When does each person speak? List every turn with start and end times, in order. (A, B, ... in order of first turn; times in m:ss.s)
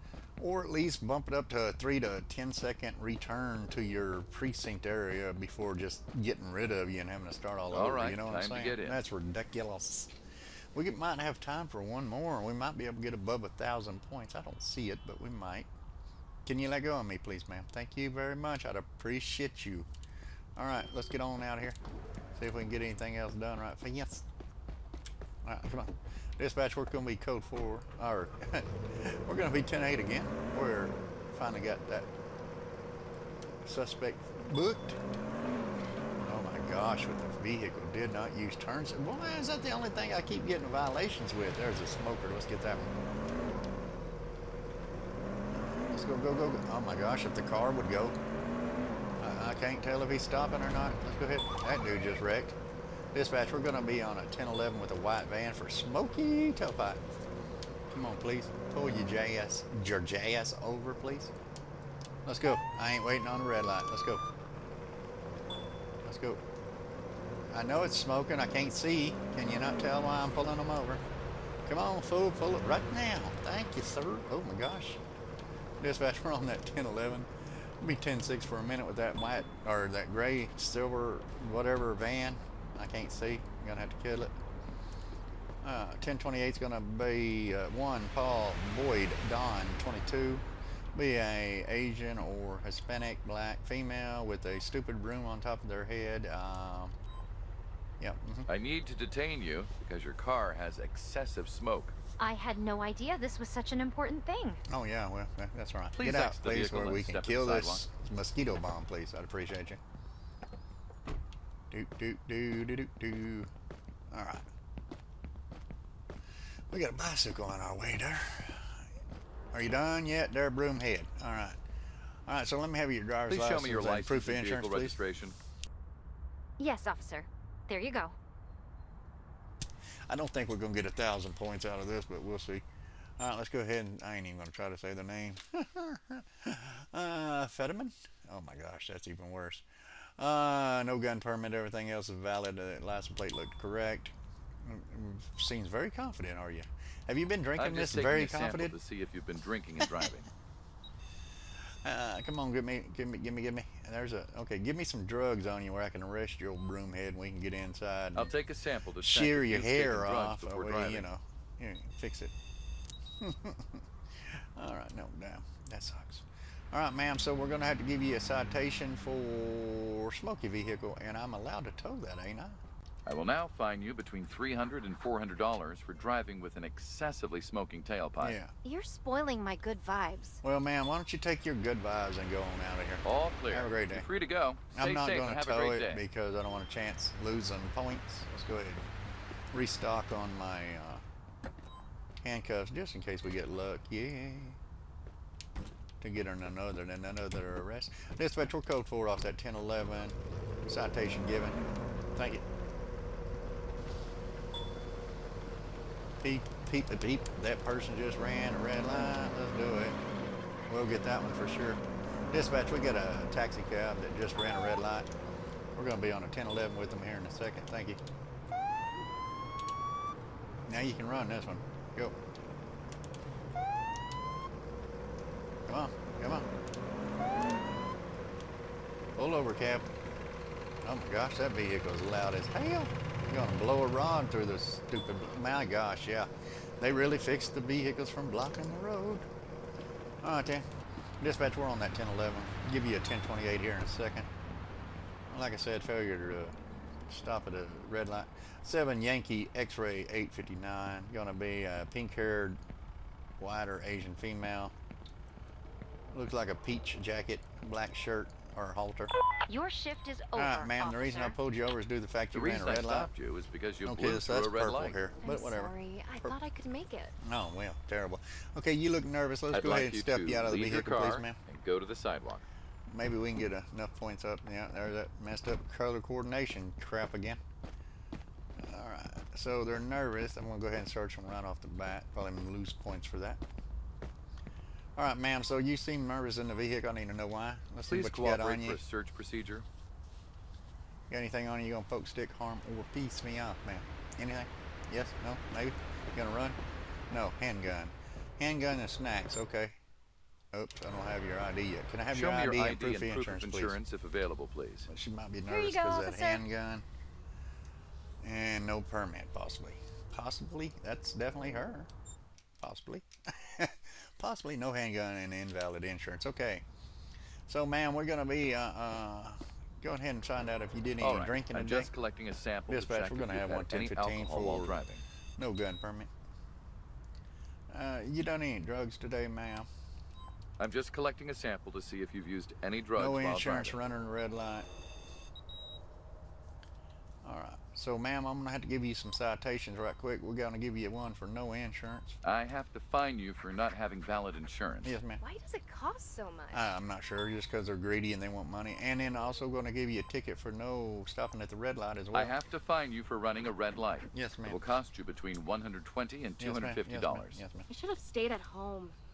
0:00.4-0:10.1 A
0:07.7-0:09.0 B
0:10.7-0:15.7 A
0:16.4-0:19.9 A
0:20.6-0:21.8 A
0:22.3-0:24.2 A
0:25.4-0:32.1 A
0:33.6-0:35.0 A
0:36.2-0:42.9 A
0:45.9-0:48.2 A
0:49.2-0:52.6 A
0:53.1-0:57.0 A
0:57.9-1:01.3 A
1:02.2-1:04.2 A
1:06.0-1:06.4 A
1:07.5-1:11.0 A
1:11.6-1:15.0 A
1:15.8-1:24.3 A
1:25.6-1:36.9 A
1:38.0-1:38.5 A
1:38.5-1:41.9 B
1:42.2-1:44.6 C
1:44.7-1:49.8 A
1:45.9-1:47.8 B
1:51.7-1:53.5 A
1:54.1-1:54.4 A
1:56.7-1:58.8 A
1:59.5-2:01.6 A
2:02.2-2:05.0 A
2:03.3-2:05.4 B
2:06.6-2:08.1 C
2:10.1-2:12.6 A
2:13.2-2:28.7 A
2:27.6-2:30.3 B
2:31.8-2:38.3 A
2:38.1-2:41.1 B
2:39.0-2:42.3 A
2:43.2-2:52.6 A
2:53.0-2:58.4 B
2:58.2-2:58.5 A
2:58.6-3:00.4 C
3:00.4-3:04.1 A
3:03.0-3:06.0 B
3:04.7-3:08.9 A
3:09.5-3:11.0 A
3:12.2-3:14.6 A
3:16.0-3:21.6 A
3:22.1-3:22.4 A
3:26.2-3:30.0 A
3:30.7-3:35.1 A
3:35.7-3:38.0 A
3:40.7-3:42.2 A
3:45.7-3:46.4 A
3:49.2-3:49.9 A
3:50.8-3:59.3 A
4:00.2-4:00.6 A
4:01.2-4:04.3 A
4:05.3-4:06.5 A
4:07.1-4:12.6 A
4:13.4-4:14.7 A
4:16.1-4:19.1 A
4:19.5-4:21.4 C
4:20.3-4:23.1 A
4:22.3-4:25.0 B
4:23.8-4:26.4 A
4:25.2-4:27.2 C
4:27.2-4:31.4 A
4:29.5-4:32.4 B
4:32.9-4:37.4 A
4:38.6-4:43.4 A
4:45.0-4:48.8 A
4:47.9-4:49.6 B
4:51.1-4:56.6 A
4:57.1-4:59.8 A
5:00.5-5:03.8 A
5:02.1-5:04.9 B
5:04.9-5:06.8 A
5:05.5-5:06.4 C
5:08.2-5:11.9 A
5:12.6-5:16.6 A
5:17.5-5:21.9 A
5:21.0-5:25.0 B
5:22.7-5:24.8 A
5:25.4-5:26.1 A
5:27.7-5:29.7 A
5:30.6-5:33.8 B
5:33.0-5:34.7 A
5:37.2-5:42.1 A
5:42.2-5:45.0 B
5:44.8-5:45.2 A
5:45.2-5:46.7 C
5:46.5-5:52.3 A
5:52.1-5:57.4 B
5:54.1-5:54.6 A
5:56.4-5:57.7 A
5:57.7-5:59.0 C